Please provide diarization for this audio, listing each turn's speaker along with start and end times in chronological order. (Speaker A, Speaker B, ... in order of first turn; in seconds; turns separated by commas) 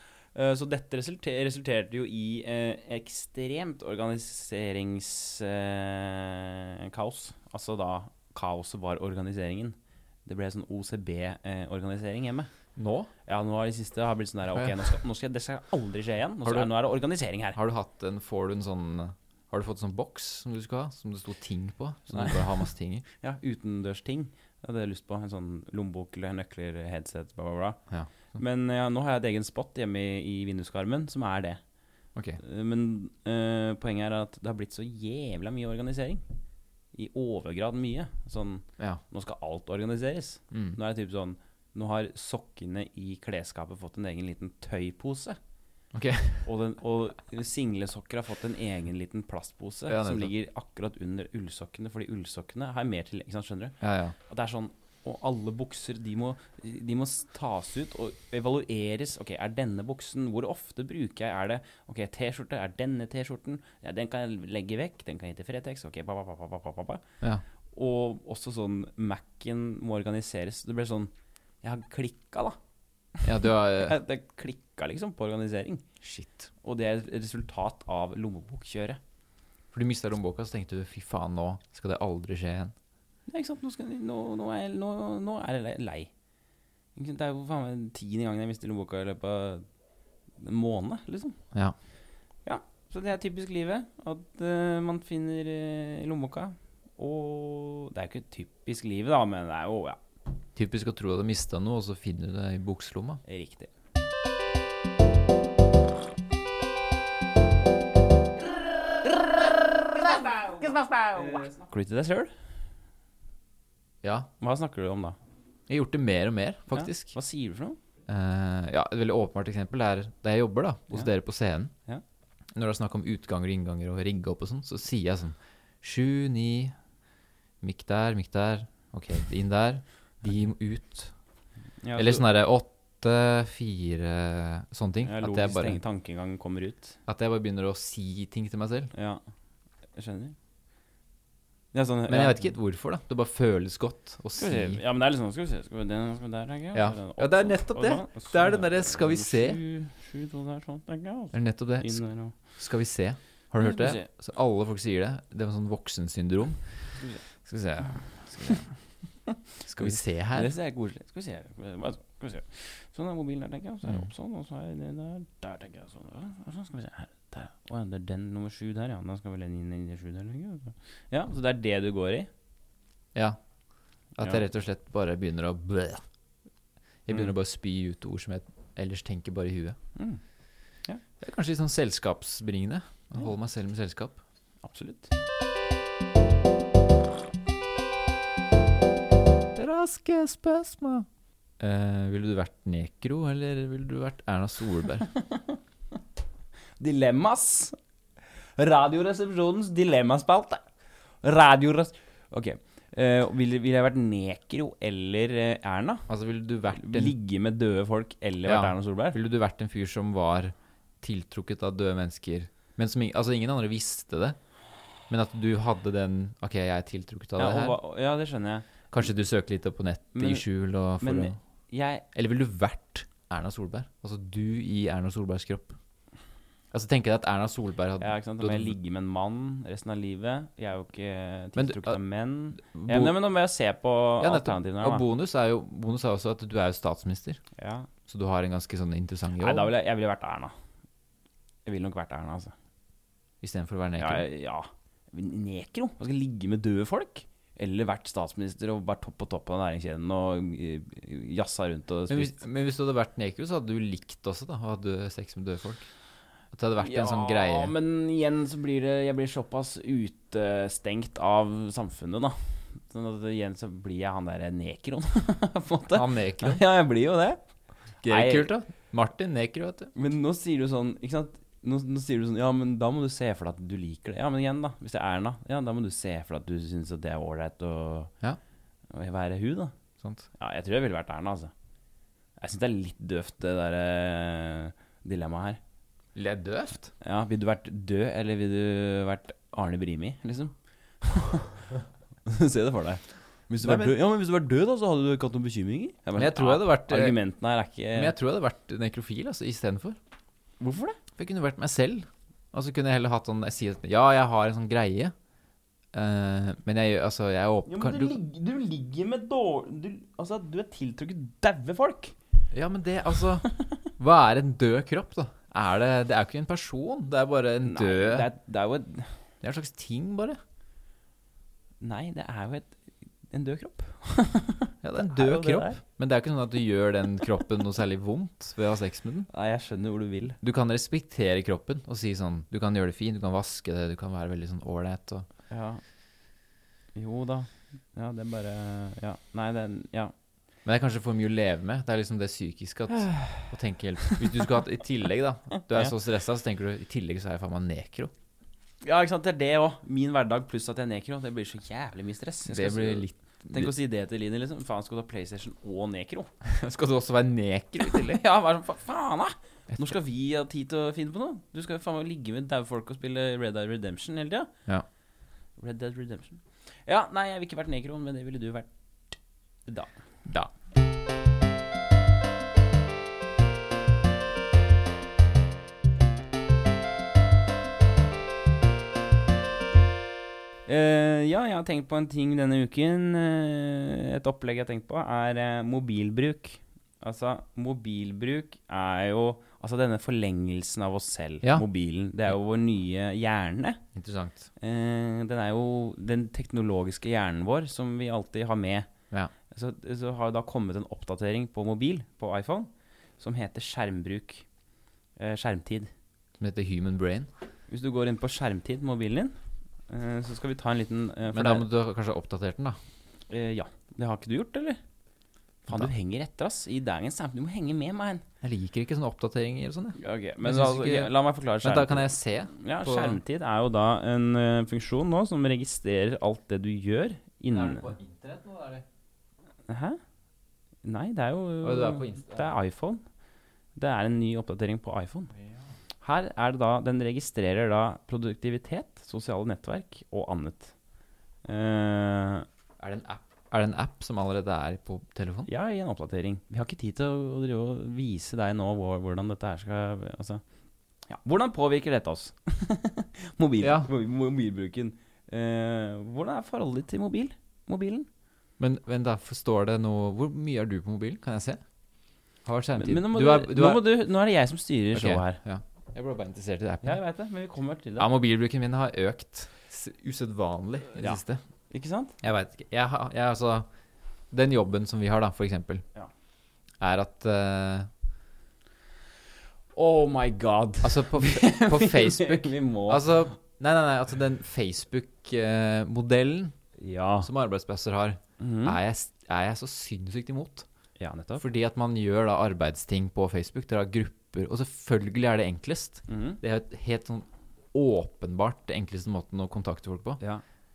Speaker A: 0.3-12.5, Speaker B: 12.8-13.1, Speaker A: 13.3-17.6, Speaker B: 16.4-16.7, Speaker B: 17.6-23.1, Speaker A: 22.1-22.7, Speaker A: 23.2-27.8, Speaker A: 28.3-31.6, Speaker A: 32.4-36.2, Speaker A: 36.9-45.4, Speaker B: 40.5-40.8, Speaker B: 45.9-46.5, Speaker A: 46.4-67.0, Speaker B: 49.9-50.3, Speaker B: 53.8-54.2, Speaker A: 67.7-71.1, Speaker A: 71.6-72.6, Speaker A: 73.2-75.8, Speaker B: 73.2-74.0, Speaker B: 76.0-76.5, Speaker A: 76.6-79.0, Speaker B: 79.7-82.7, Speaker A: 83.3-86.1, Speaker A: 87.0-89.7, Speaker A: 90.4-91.4, Speaker A: 92.5-100.0, Speaker B: 100.6-103.2, Speaker A: 103.2-103.7, Speaker A: 109.0-112.3, Speaker B: 114.0-114.3, Speaker A: 114.4-115.2, Speaker B: 115.7-117.1, Speaker A: 116.7-117.8, Speaker B: 118.1-121.7, Speaker B: 122.5-126.7, Speaker B: 127.6-131.1, Speaker A: 131.8-132.2, Speaker B: 132.0-135.8, Speaker A: 135.0-137.0, Speaker B: 137.1-138.9, Speaker A: 138.9-139.2, Speaker A: 139.9-140.4, Speaker A: 141.7-142.5, Speaker B: 142.1-144.8, Speaker A: 144.4-152.3, Speaker B: 146.7-149.6, Speaker B: 151.3-156.9, Speaker A: 153.6-154.1, Speaker A: 157.0-157.2, Speaker B: 157.4-158.7, Speaker A: 159.3-172.3, Speaker B: 159.7-160.5, Speaker B: 163.8-164.1, Speaker B: 174.2-176.0, Speaker B: 177.1-179.8, Speaker A: 180.0-180.2, Speaker B: 181.2-184.2, Speaker A: 184.6-185.1, Speaker B: 189.5-191.1, Speaker B: 191.6-195.1, Speaker A: 195.1-195.6, Speaker A: 196.8-197.8, Speaker A: 198.6-200.7, Speaker A: 201.2-206.1, Speaker B: 206.1-207.2, Speaker A: 206.7-209.2, Speaker B: 208.4-214.4, Speaker B: 215.1-217.8, Speaker A: 217.4-218.7, Speaker B: 218.9-221.4, Speaker A: 220.2-220.5, Speaker A: 221.0-222.1, Speaker B: 222.1-225.8, Speaker B: 226.7-228.8, Speaker A: 228.0-235.1, Speaker B: 231.6-232.0, Speaker B: 232.6-233.2, Speaker B: 234.2-237.4, Speaker A: 237.6-237.9, Speaker B: 238.1-239.7, Speaker A: 239.4-240.5, Speaker A: 241.7-242.5, Speaker B: 243.4-244.3, Speaker A: 244.0-252.4, Speaker B: 252.1-255.9, Speaker B: 256.5-257.7, Speaker A: 256.8-267.4, Speaker B: 265.9-266.6, Speaker A: 268.0-268.5, Speaker B: 268.0-269.9, Speaker A: 269.9-278.1, Speaker A: 278.9-279.7, Speaker A: 280.4-281.5, Speaker A: 282.4-285.6, Speaker B: 286.1-286.9, Speaker A: 287.0-291.7, Speaker A: 292.2-298.1, Speaker B: 293.6-293.9, Speaker B: 296.2-297.2, Speaker B: 297.9-300.0, Speaker A: 300.6-301.0, Speaker B: 301.2-305.1, Speaker B: 305.9-308.2, Speaker A: 307.7-312.2, Speaker B: 312.5-318.3, Speaker A: 313.5-313.8, Speaker A: 317.6-319.2, Speaker B: 319.4-320.4, Speaker A: 321.8-322.8, Speaker A: 323.3-325.8, Speaker B: 324.8-329.3, Speaker A: 329.3-330.4, Speaker B: 330.4-335.3, Speaker A: 335.5-335.8, Speaker A: 336.9-340.1, Speaker B: 340.6-348.1, Speaker A: 342.9-344.6, Speaker A: 345.6-345.9, Speaker A: 348.8-356.3, Speaker B: 352.5-353.7, Speaker B: 356.4-358.2, Speaker A: 357.8-364.5, Speaker A: 365.6-368.7, Speaker A: 369.7-369.9, Speaker B: 370.3-370.5, Speaker A: 380.7-393.8, Speaker B: 393.9-394.5, Speaker A: 394.6-398.9, Speaker A: 399.5-404.5, Speaker A: 405.2-405.9, Speaker B: 406.4-407.3, Speaker A: 407.7-409.3, Speaker A: 409.9-411.7, Speaker B: 411.3-412.8, Speaker A: 413.3-414.8, Speaker A: 415.7-418.2, Speaker B: 418.4-423.2, Speaker A: 420.0-427.9, Speaker B: 427.5-428.9, Speaker A: 429.7-430.0, Speaker A: 430.8-433.0, Speaker B: 431.6-432.5, Speaker A: 433.8-435.3, Speaker A: 436.0-440.8, Speaker A: 441.4-442.5, Speaker B: 442.8-445.5, Speaker A: 445.5-450.4, Speaker A: 451.1-458.1, Speaker B: 453.6-453.9, Speaker B: 458.6-461.6, Speaker B: 462.4-463.9, Speaker A: 462.8-465.4, Speaker B: 464.9-467.0, Speaker A: 466.8-468.1, Speaker B: 468.0-471.4, Speaker A: 471.0-472.2, Speaker B: 472.2-473.7, Speaker B: 474.3-475.9, Speaker B: 476.8-477.9, Speaker A: 479.8-483.3, Speaker B: 480.8-486.6, Speaker A: 486.8-487.3, Speaker B: 487.2-490.7, Speaker A: 488.4-488.8, Speaker A: 491.0-491.4, Speaker B: 491.4-500.2, Speaker A: 496.1-496.4